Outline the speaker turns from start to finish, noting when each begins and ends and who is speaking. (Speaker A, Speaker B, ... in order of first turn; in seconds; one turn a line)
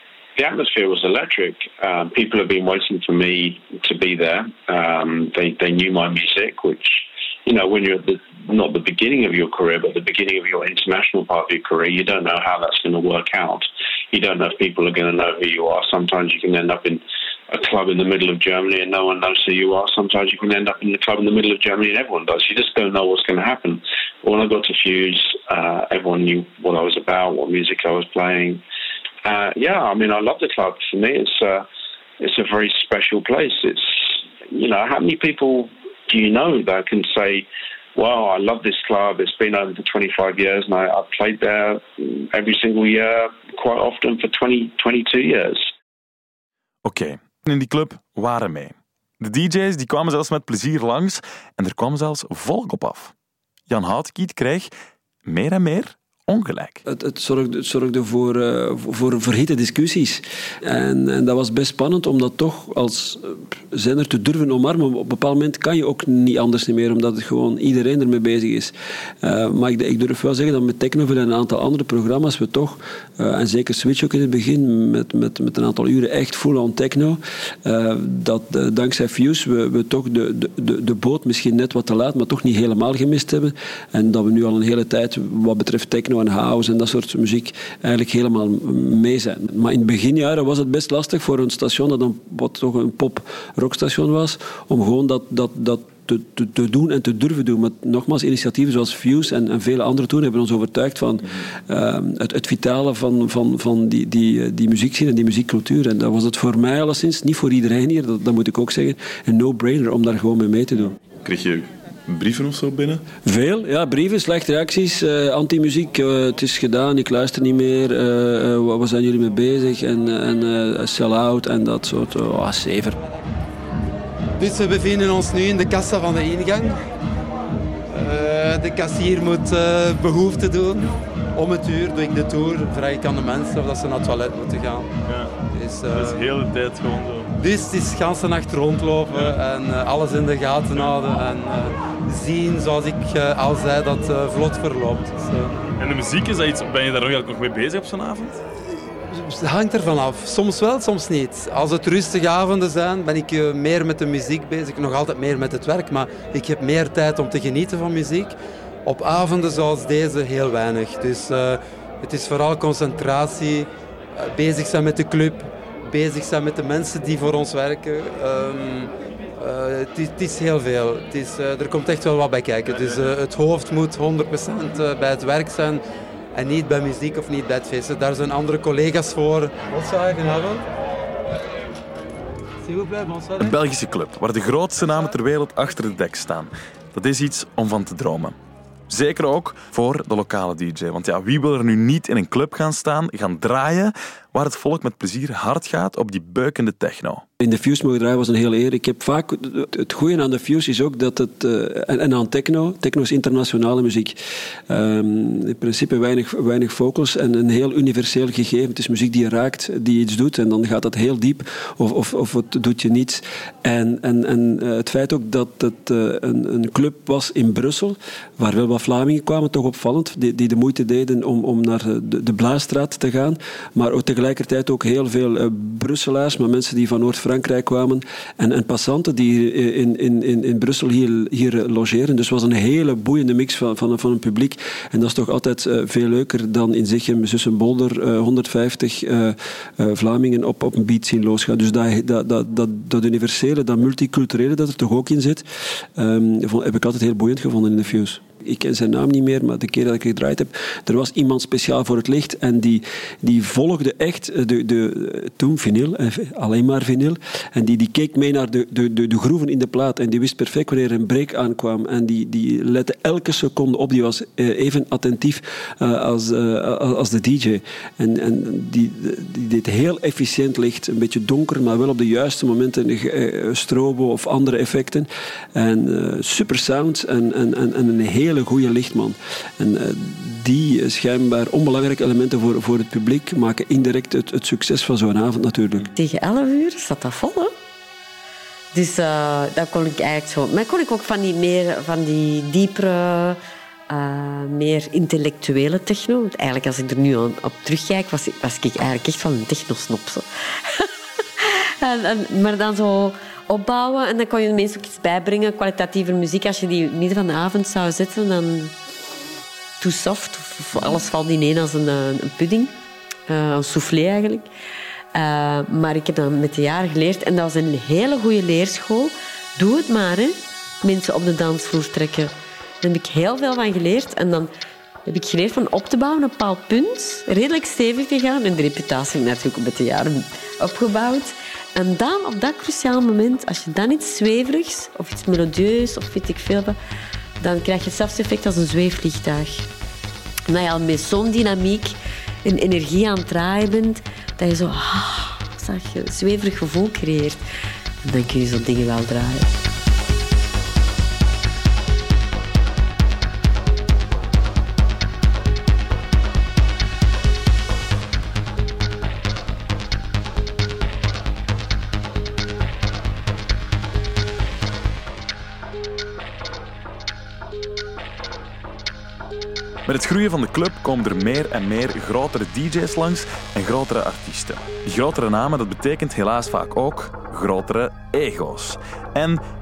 Speaker A: 0.4-28.6
Speaker A: 29.2-31.6
Speaker A: 32.2-34.0
Speaker A: 34.5-45.7
Speaker B: 46.8-53.1
Speaker B: 53.7-54.7
Speaker B: 55.2-56.8
Speaker C: 56.9-110.9
Speaker B: 111.2-113.0
Speaker C: 113.2-123.0
Speaker D: 124.4-126.8
Speaker D: 127.9-134.9
Speaker B: 135.1-135.3
Speaker D: 135.5-136.4
Speaker B: 135.9-137.3
Speaker D: 137.4-145.5
Speaker B: 145.7-148.4
Speaker D: 148.8-175.8
Speaker D: 176.3-180.6
Speaker D: 182.6-183.5
Speaker B: 183.4-188.3
Speaker B: 188.9-197.2
Speaker C: 197.4-204.2
Speaker C: 204.7-285.9
Speaker E: 285.9-287.5
Speaker E: 288.7-293.4
Speaker E: 293.9-308.7
Speaker E: 309.8-312.7
Speaker E: 313.3-314.5
Speaker E: 315.1-324.5
Speaker E: 325.1-336.8
Speaker E: 337.4-339.7
Speaker E: 340.5-347.4
Speaker E: 348.0-349.5
Speaker B: 369.9-379.4